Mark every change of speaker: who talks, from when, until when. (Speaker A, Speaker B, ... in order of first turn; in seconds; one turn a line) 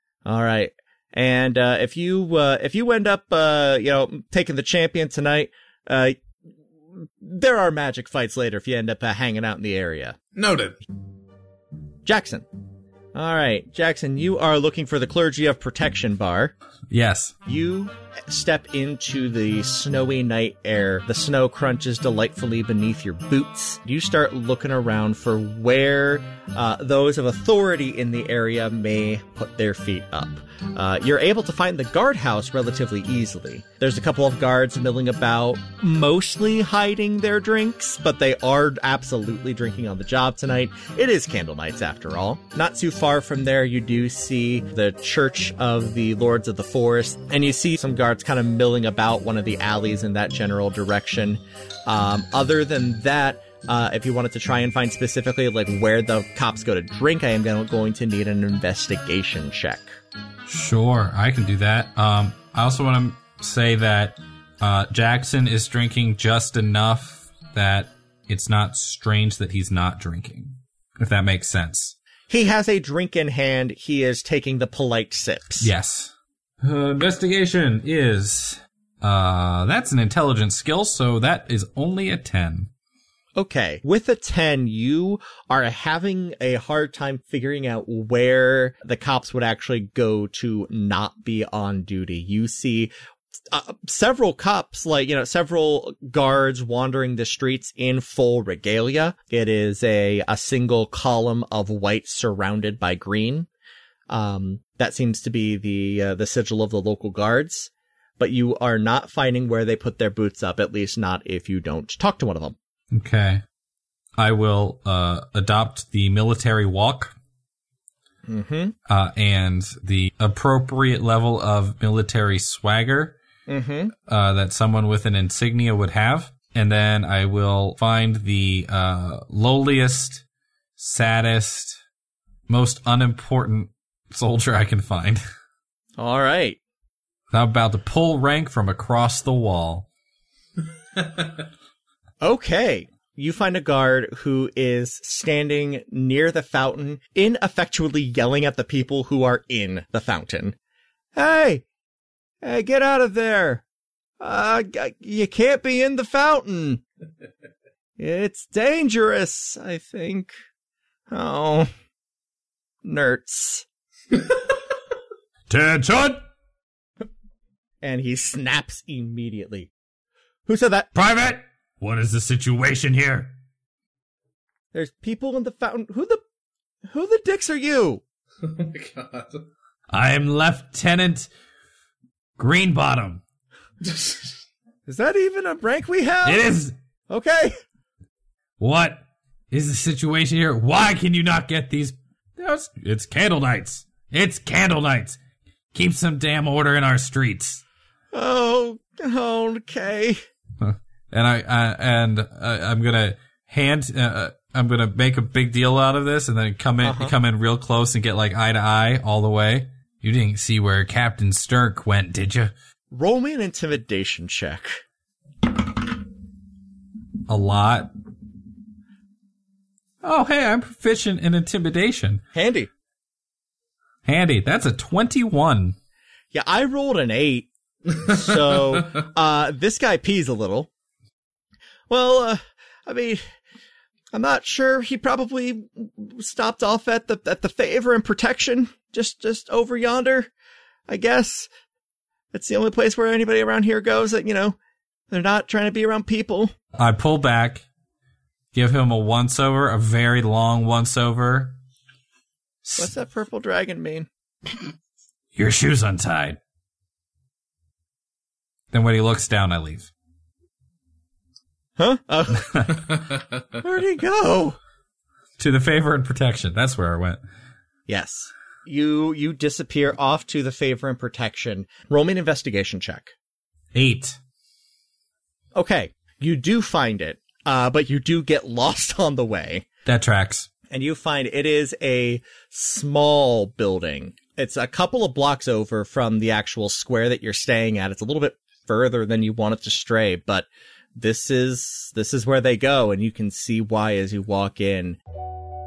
Speaker A: 0.2-6.2
Speaker A: 6.9-10.2
Speaker B: 10.3-10.8
Speaker A: 12.0-12.4
Speaker A: 13.1-16.5
Speaker C: 16.9-17.3
Speaker A: 17.4-59.9
Speaker C: 60.5-71.9
Speaker A: 72.3-75.7
Speaker C: 75.6-82.7
Speaker A: 83.3-92.9
Speaker A: 93.5-103.5
Speaker A: 104.1-112.5
Speaker C: 112.9-113.4
Speaker C: 114.2-117.1
Speaker A: 118.3-118.8
Speaker C: 118.9-123.2
Speaker A: 123.5-123.9
Speaker C: 124.1-130.2
Speaker C: 130.8-131.8
Speaker C: 132.5-135.2
Speaker A: 136.0-136.6
Speaker C: 137.3-139.8
Speaker A: 142.2-150.6
Speaker A: 151.1-151.6
Speaker A: 152.4-153.6
Speaker A: 154.2-156.8
Speaker A: 158.0-160.3
Speaker A: 161.1-161.7
Speaker A: 162.8-163.6
Speaker C: 165.5-166.2
Speaker A: 167.8-169.7
Speaker A: 170.5-170.9
Speaker C: 170.9-173.3
Speaker A: 174.7-176.2
Speaker A: 176.9-178.0
Speaker B: 178.4-179.5
Speaker C: 179.9-181.3
Speaker C: 182.4-183.2
Speaker B: 183.8-184.3
Speaker A: 184.9-186.5
Speaker C: 186.2-186.7
Speaker A: 187.1-187.6
Speaker C: 188.6-195.2
Speaker C: 195.7-197.6
Speaker A: 198.1-200.2
Speaker C: 200.6-212.5
Speaker A: 206.8-207.1
Speaker A: 212.9-214.8
Speaker C: 217.3-217.9
Speaker C: 220.0-222.2
Speaker A: 222.3-222.7
Speaker C: 224.0-225.8
Speaker A: 226.3-230.7
Speaker A: 231.9-233.2
Speaker A: 234.1-240.3
Speaker A: 240.9-241.5
Speaker A: 242.3-244.6
Speaker A: 245.1-246.5
Speaker C: 246.8-247.6
Speaker C: 248.5-251.6
Speaker C: 252.6-252.9
Speaker A: 252.8-254.1
Speaker C: 255.3-256.4
Speaker C: 258.7-259.9
Speaker A: 261.8-262.9
Speaker A: 263.6-264.6
Speaker C: 265.4-267.2
Speaker A: 267.9-273.1
Speaker C: 273.7-274.2
Speaker A: 275.5-279.7
Speaker C: 279.9-280.5
Speaker A: 280.7-295.0